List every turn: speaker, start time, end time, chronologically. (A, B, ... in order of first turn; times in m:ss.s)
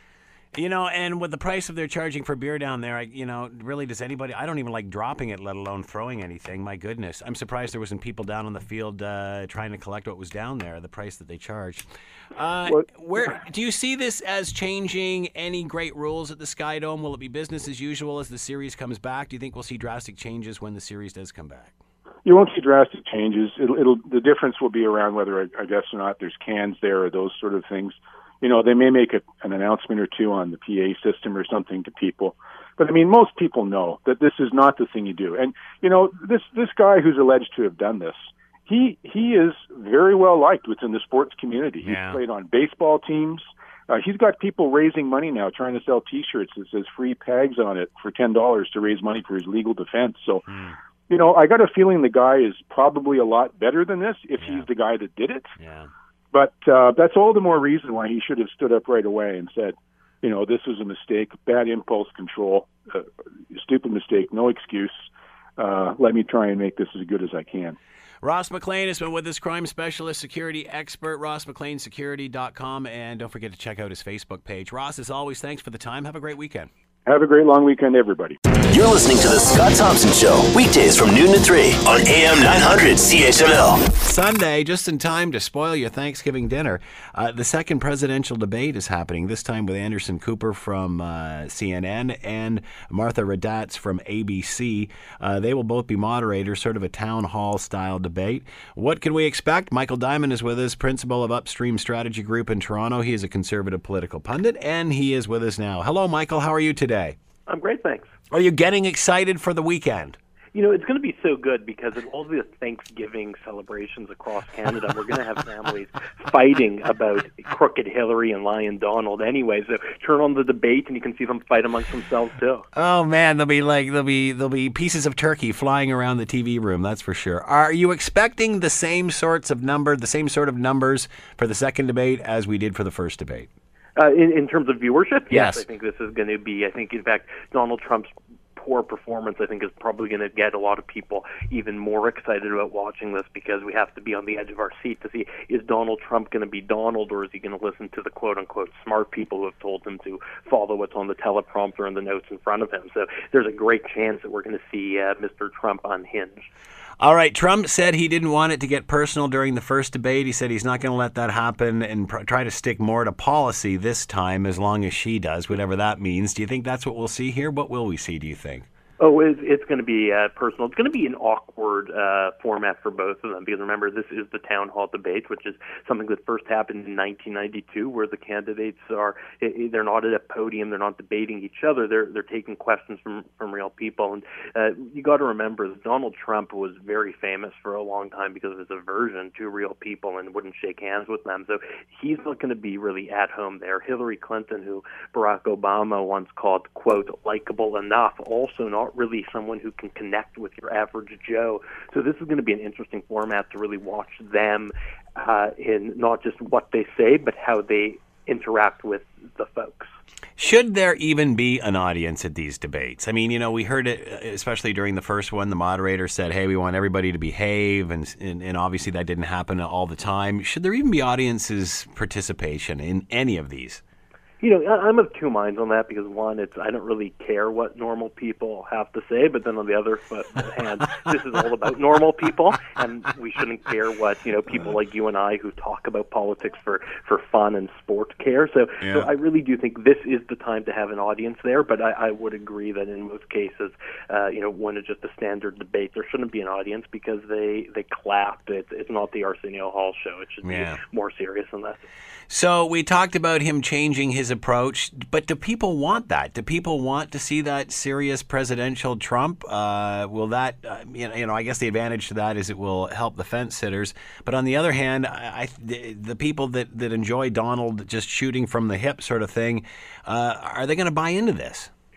0:00.5-0:21.7 A
0:12.6-0:13.3 B
0:22.2-0:50.4 B
0:41.8-0:42.2 A
0:50.5-0:50.8 A
0:51.1-0:55.5 B
0:55.6-0:55.9 A
0:56.3-1:05.0 B
1:05.6-1:07.8 B
1:08.2-1:16.7 A
1:17.0-1:18.4 B
1:18.7-1:23.9 C
1:24.0-1:47.2 A
1:47.5-1:48.1 D
1:48.3-1:50.2 A
1:50.5-2:02.7 D
2:02.7-2:13.5 A
2:14.0-2:36.5 D
2:15.3-2:15.6 A
2:37.0-2:48.6 A
2:49.0-3:29.9 D
3:30.4-3:43.8 A
3:44.4-4:11.8 D
3:58.8-3:59.1 A
4:10.4-4:10.8 A
4:12.3-4:31.7 A